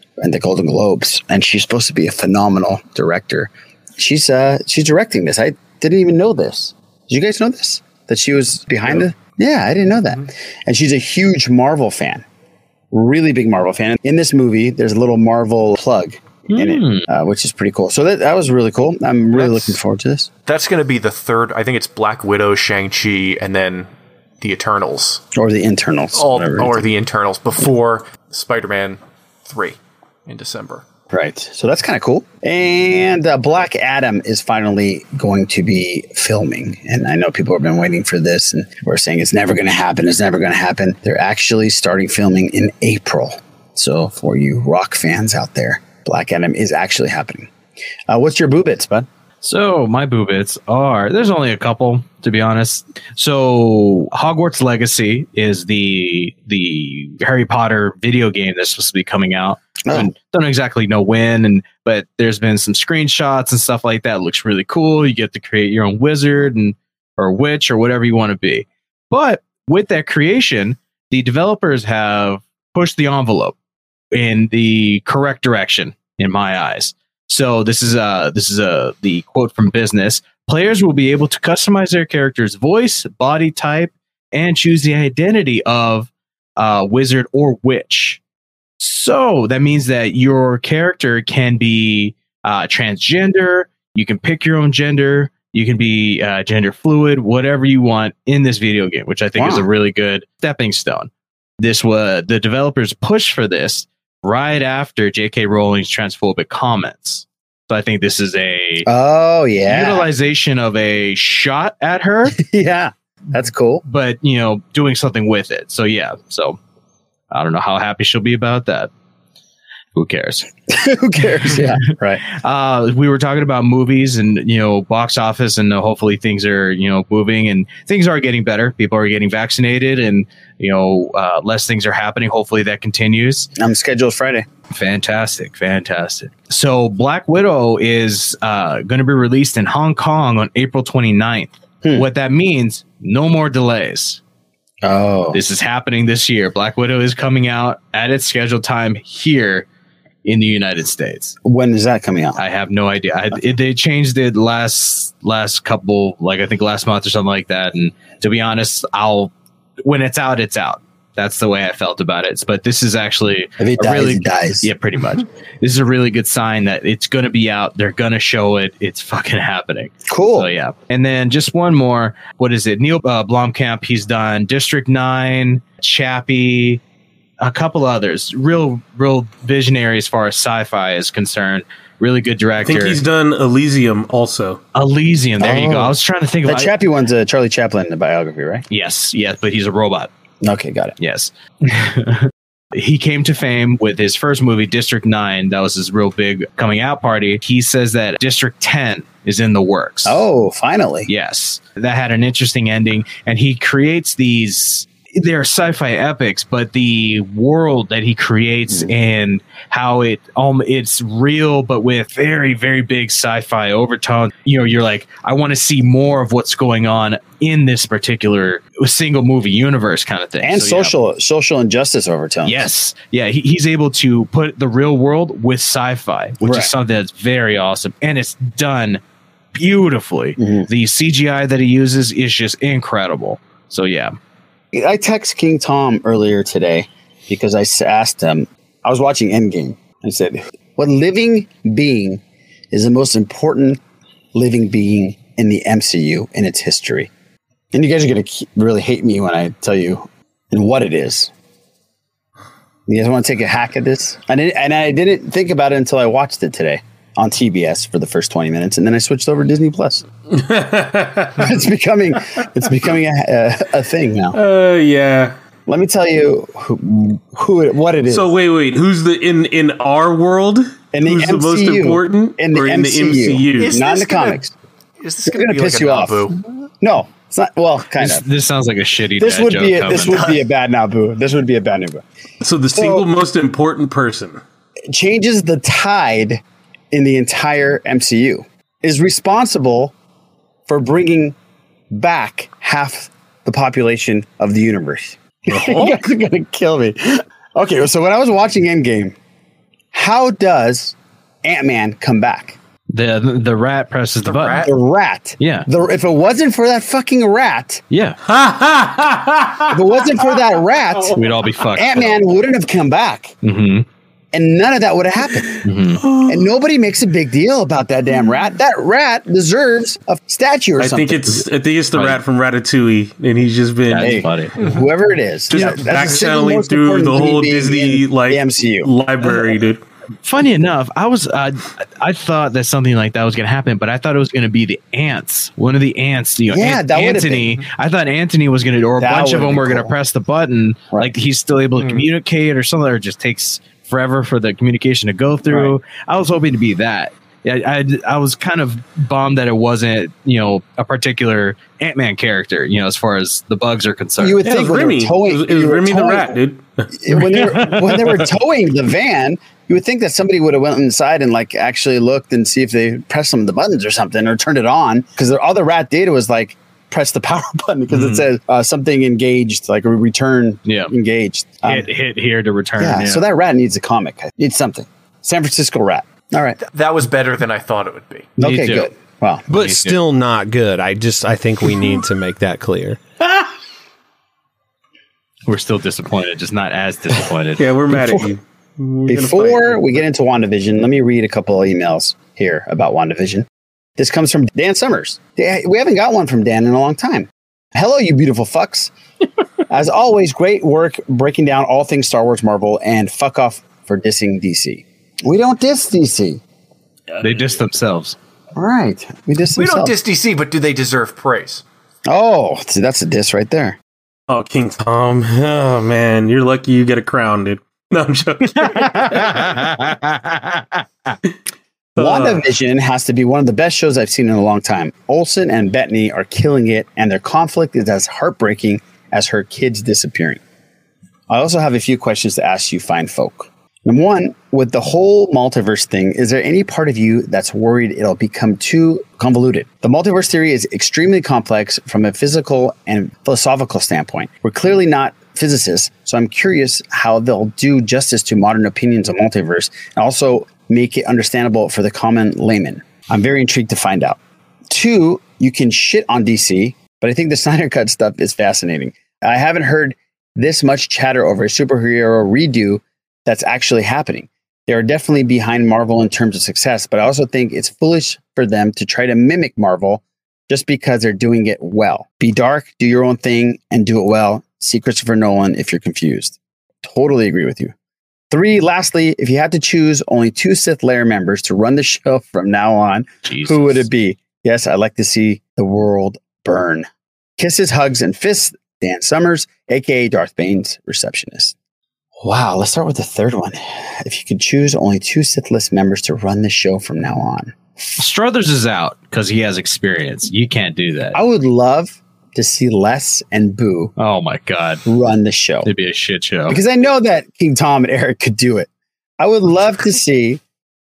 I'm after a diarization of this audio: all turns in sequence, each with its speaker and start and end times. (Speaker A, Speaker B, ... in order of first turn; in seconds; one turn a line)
Speaker A: 0.2-12.2
Speaker A: 12.9-20.3
Speaker B: 16.5-17.1
Speaker C: 19.3-19.8
Speaker C: 20.4-25.2
Speaker A: 25.3-26.9
Speaker C: 26.1-30.8
Speaker A: 31.1-47.5
Speaker A: 48.1-49.1
Speaker B: 49.4-73.5
Speaker A: 59.8-60.1
Speaker B: 74.1-88.2
Speaker B: 88.8-108.9
Speaker A: 99.3-99.7
Speaker A: 108.8-110.1
Speaker B: 109.7-112.3
Speaker A: 112.4-113.8
Speaker B: 113.8-116.6
Speaker B: 117.3-118.9
Speaker B: 120.0-120.5
Speaker A: 120.7-122.2
Speaker B: 122.3-133.5
Speaker A: 133.6-134.4
Speaker B: 134.7-144.2
Speaker A: 144.8-145.4
Speaker B: 145.3-149.7
Speaker B: 150.2-151.3
Speaker A: 151.4-152.4
Speaker B: 152.4-159.3
Speaker B: 159.8-176.8
Speaker A: 163.6-164.7
Speaker A: 170.1-170.5
Speaker B: 177.4-183.0
Speaker D: 182.7-184.6
Speaker B: 184.7-186.7
Speaker A: 185.4-185.9
Speaker A: 186.4-188.6
Speaker B: 188.7-190.1
Speaker A: 190.4-190.9
Speaker B: 191.0-200.2
Speaker A: 200.0-201.1
Speaker B: 201.1-220.9
Speaker A: 220.4-222.7
Speaker B: 222.4-229.0
Speaker A: 226.4-226.7
Speaker B: 229.5-234.1
Speaker A: 230.4-230.7
Speaker A: 234.7-242.2
Speaker A: 242.7-243.8
Speaker A: 244.3-247.1
Speaker A: 247.7-251.3
Speaker A: 252.9-260.0
Speaker D: 260.3-261.6
Speaker A: 261.4-264.4
Speaker D: 264.3-265.3
Speaker A: 265.7-268.2
Speaker D: 268.1-273.8
Speaker A: 270.9-274.5
Speaker C: 273.6-274.4
Speaker C: 275.0-276.5
Speaker A: 275.3-276.3
Speaker A: 276.8-278.2
Speaker B: 278.0-280.3
Speaker A: 279.2-282.0
Speaker C: 280.0-280.4
Speaker D: 282.4-284.4
Speaker A: 282.7-283.1
Speaker A: 284.9-286.4
Speaker A: 286.9-289.9
Speaker A: 290.7-291.3
Speaker A: 291.9-299.1
Speaker B: 295.6-295.9
Speaker A: 299.9-302.6
Speaker B: 302.9-304.6
Speaker C: 304.3-304.7
Speaker A: 304.6-307.8
Speaker B: 305.4-305.7
Speaker B: 307.9-308.2
Speaker D: 308.2-310.0
Speaker A: 309.7-311.2
Speaker B: 311.1-312.2
Speaker A: 311.8-313.3
Speaker B: 313.4-313.9
Speaker A: 314.3-315.6
Speaker B: 315.6-316.0
Speaker D: 316.0-316.5
Speaker A: 316.3-321.4
Speaker D: 320.8-324.2
Speaker B: 321.9-322.2
Speaker B: 323.9-324.6
Speaker A: 324.0-328.9
Speaker D: 325.5-329.8
Speaker B: 330.2-354.4
Speaker A: 336.5-337.5
Speaker A: 339.0-339.9
Speaker C: 341.8-342.0
Speaker A: 354.2-356.4
Speaker D: 354.4-357.4
Speaker A: 356.9-371.9
Speaker B: 357.4-358.0
Speaker B: 367.9-368.3
Speaker B: 370.6-370.9
Speaker B: 371.6-373.2
Speaker A: 372.8-376.6
Speaker C: 376.6-378.3
Speaker B: 378.4-378.9
Speaker A: 378.4-379.4
Speaker B: 379.5-380.0
Speaker E: 379.5-383.0
Speaker B: 385.5-387.6
Speaker D: 387.6-390.0
Speaker A: 387.9-388.2
Speaker A: 389.1-393.5
Speaker A: 394.0-398.9
Speaker A: 399.7-406.4
Speaker D: 407.1-407.4
Speaker B: 407.2-408.2
Speaker A: 408.6-409.9
Speaker C: 409.6-411.6
Speaker A: 412.1-413.8
Speaker D: 414.3-419.7
Speaker B: 418.5-420.8
Speaker D: 422.0-422.5
Speaker A: 422.0-430.4
Speaker A: 431.3-454.2
Speaker A: 454.7-477.7
Speaker A: 478.3-486.9
Speaker B: 483.2-483.9
Speaker A: 487.4-491.5
Speaker A: 492.2-497.6
Speaker B: 498.0-501.2
Speaker A: 501.1-503.9
Speaker B: 504.0-504.8
Speaker A: 504.8-505.7
Speaker B: 505.6-506.6
Speaker A: 506.5-508.7
Speaker A: 509.2-510.4